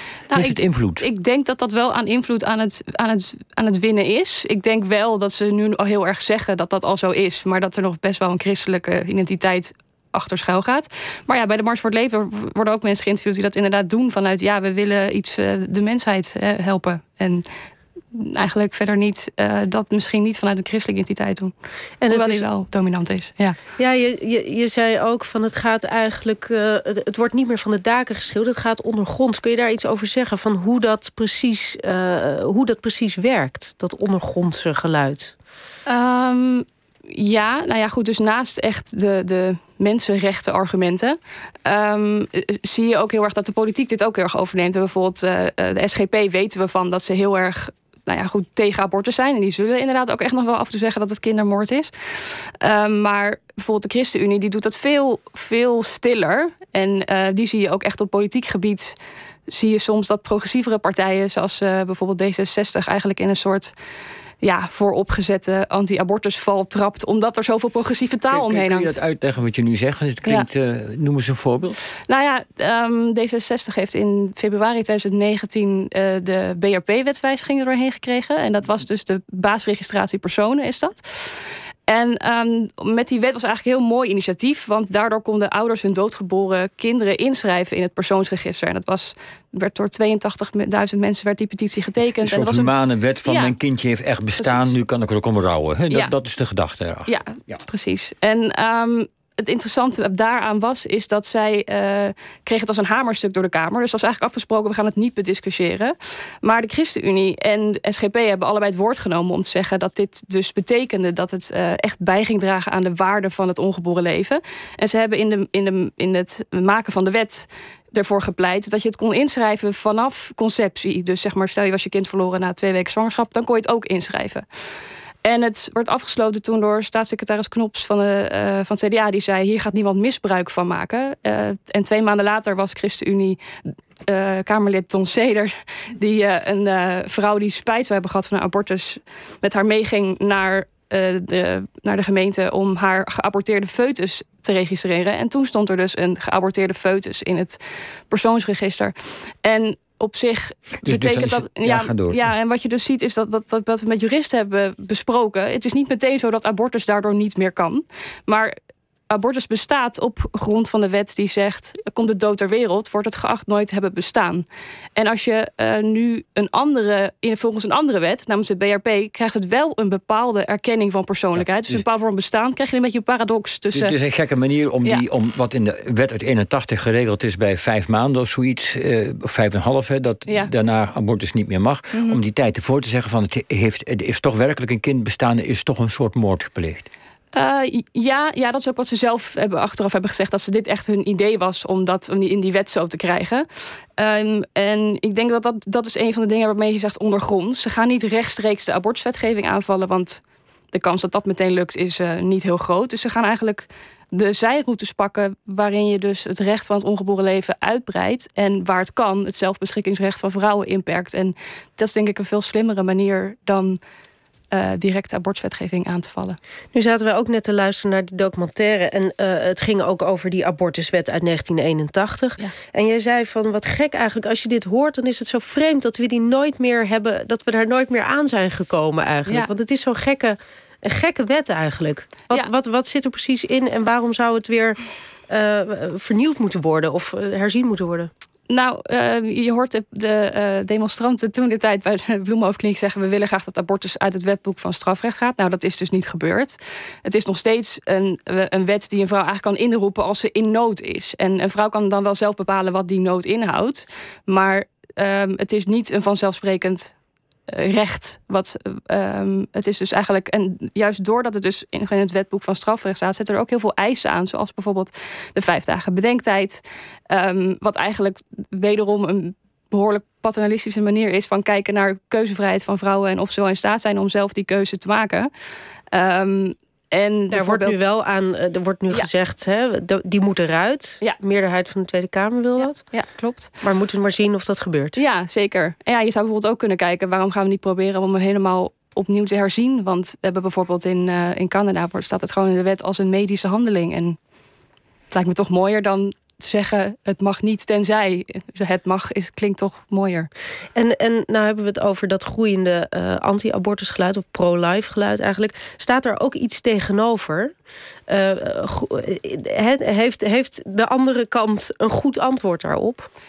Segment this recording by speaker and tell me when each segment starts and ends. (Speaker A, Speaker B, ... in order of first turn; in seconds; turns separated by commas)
Speaker A: 0.3-1.0, Speaker B: 0.3-17.4, Speaker B: 18.1-21.5, Speaker C: 22.0-22.5, Speaker B: 22.1-23.6, Speaker C: 23.8-35.4, Speaker B: 35.9-63.7, Speaker B: 64.4-69.0, Speaker A: 68.3-71.8, Speaker B: 72.1-93.6, Speaker A: 92.2-97.6, Speaker B: 94.4-94.7, Speaker B: 95.9-96.2, Speaker B: 97.1-124.5, Speaker B: 125.2-133.4, Speaker B: 134.1-147.6, Speaker B: 148.1-158.6, Speaker A: 150.8-152.2, Speaker B: 159.1-164.4, Speaker B: 165.0-173.9, Speaker A: 171.4-171.8, Speaker A: 173.7-186.9, Speaker B: 180.3-180.5, Speaker B: 181.9-182.2, Speaker B: 187.3-193.5, Speaker B: 194.0-213.8, Speaker B: 214.5-216.4, Speaker C: 216.7-238.1, Speaker B: 238.5-256.9, Speaker B: 257.5-275.3, Speaker B: 275.9-277.9, Speaker C: 277.3-282.8, Speaker B: 282.6-283.5, Speaker C: 283.6-285.0, Speaker B: 285.0-294.2, Speaker B: 295.1-300.3, Speaker C: 300.8-307.5, Speaker C: 308.1-313.1